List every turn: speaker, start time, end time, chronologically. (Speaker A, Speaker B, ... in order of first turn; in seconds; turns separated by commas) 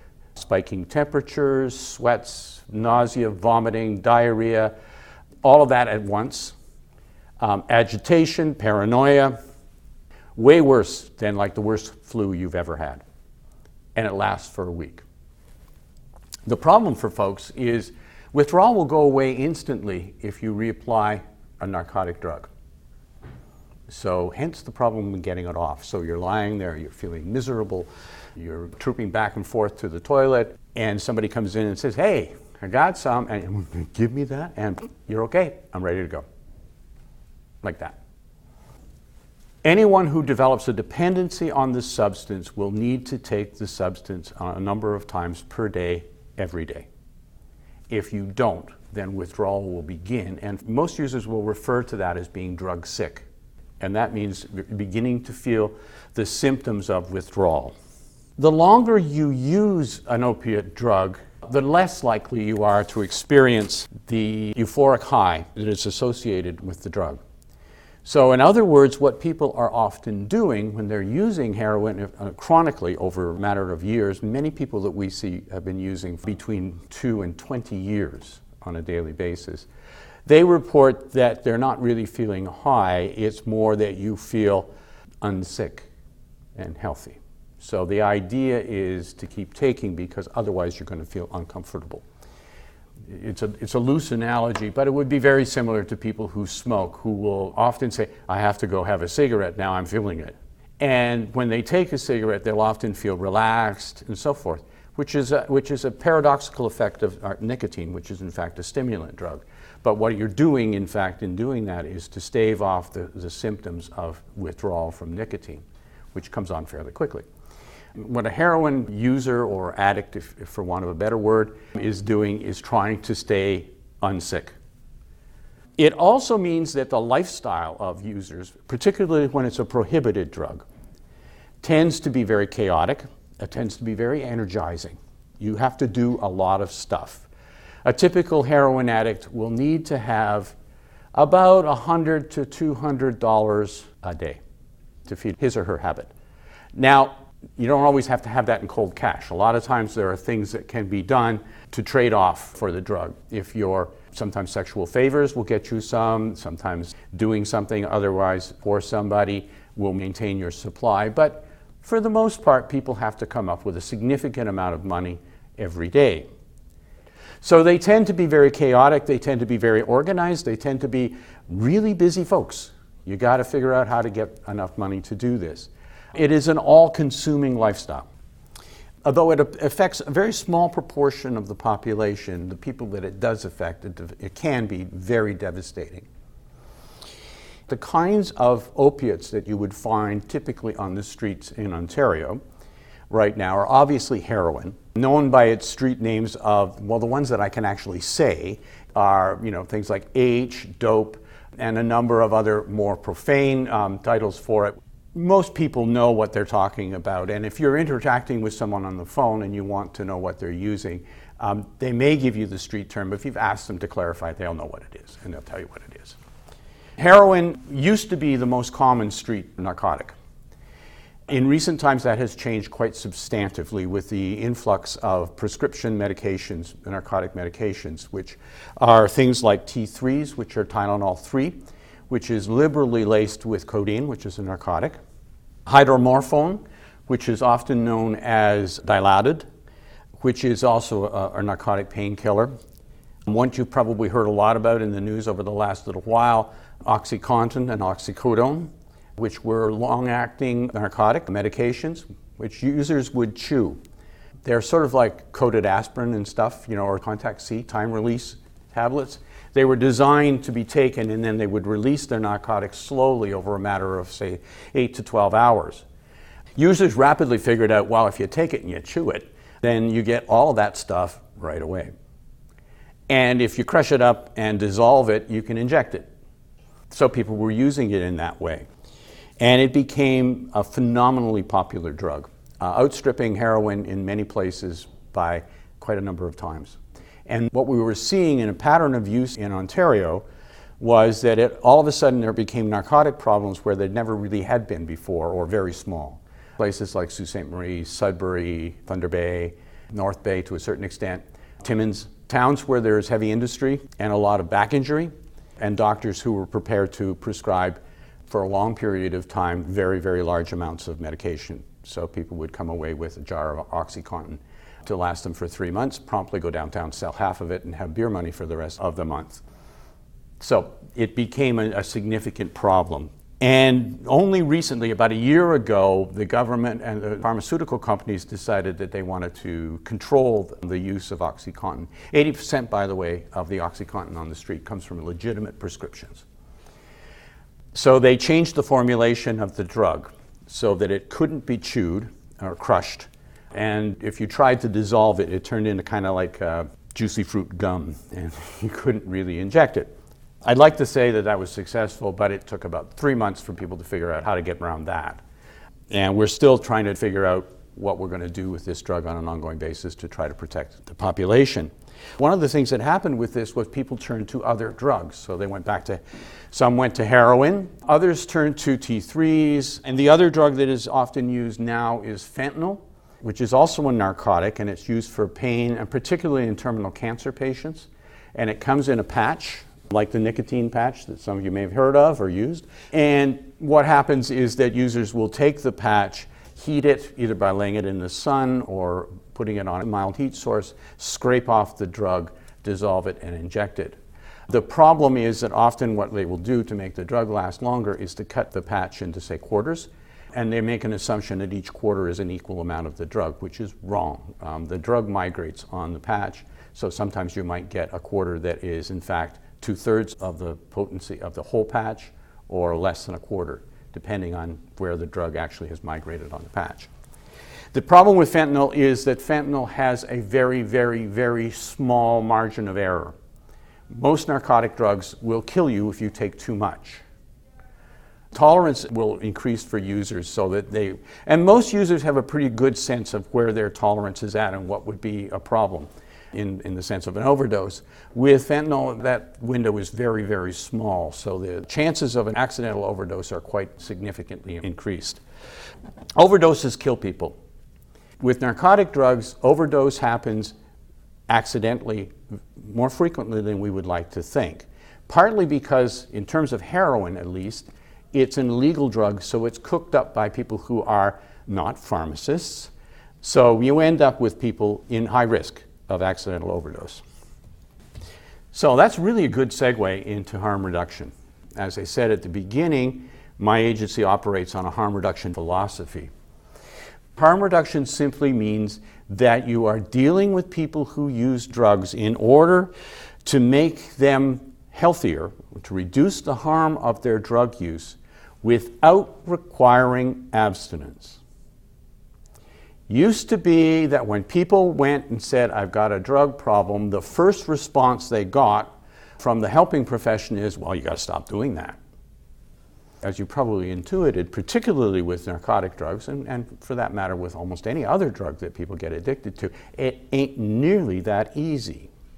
Speaker A: 0.3-4.7, Speaker A: 5.4-6.5, Speaker A: 7.4-9.4, Speaker A: 10.3-13.0, Speaker A: 13.9-15.0, Speaker A: 16.4-22.5, Speaker A: 23.9-36.2, Speaker A: 37.6-38.0, Speaker A: 39.6-46.9, Speaker A: 47.9-53.3, Speaker A: 53.8-57.7, Speaker A: 58.4-67.2, Speaker A: 68.0-79.7, Speaker A: 80.2-84.7, Speaker A: 85.2-85.9, Speaker A: 86.5-92.0, Speaker A: 93.0-117.2, Speaker A: 118.0-124.5, Speaker A: 125.8-130.7, Speaker A: 131.6-137.3, Speaker A: 137.8-140.5, Speaker A: 141.1-144.4, Speaker A: 145.0-146.1, Speaker A: 146.7-166.3, Speaker A: 167.4-178.1, Speaker A: 179.0-186.1, Speaker A: 187.7-192.4, Speaker A: 193.1-216.2, Speaker A: 217.0-220.1, Speaker A: 221.3-235.0, Speaker A: 235.7-239.4, Speaker A: 240.2-242.5, Speaker A: 243.2-253.8, Speaker A: 254.4-265.9, Speaker A: 266.6-271.9, Speaker A: 273.1-276.1, Speaker A: 276.9-278.7, Speaker A: 279.4-290.2, Speaker A: 290.8-319.4, Speaker A: 320.4-336.2, Speaker A: 337.7-349.9, Speaker A: 350.4-355.2, Speaker A: 355.9-394.0, Speaker A: 394.5-416.9, Speaker A: 417.7-423.1, Speaker A: 423.9-427.0, Speaker A: 428.3-445.2, Speaker A: 446.1-447.4, Speaker A: 448.2-450.5, Speaker A: 451.3-467.0, Speaker A: 468.5-476.1, Speaker A: 477.1-482.7, Speaker A: 483.2-491.2, Speaker A: 492.9-501.8, Speaker A: 503.0-511.9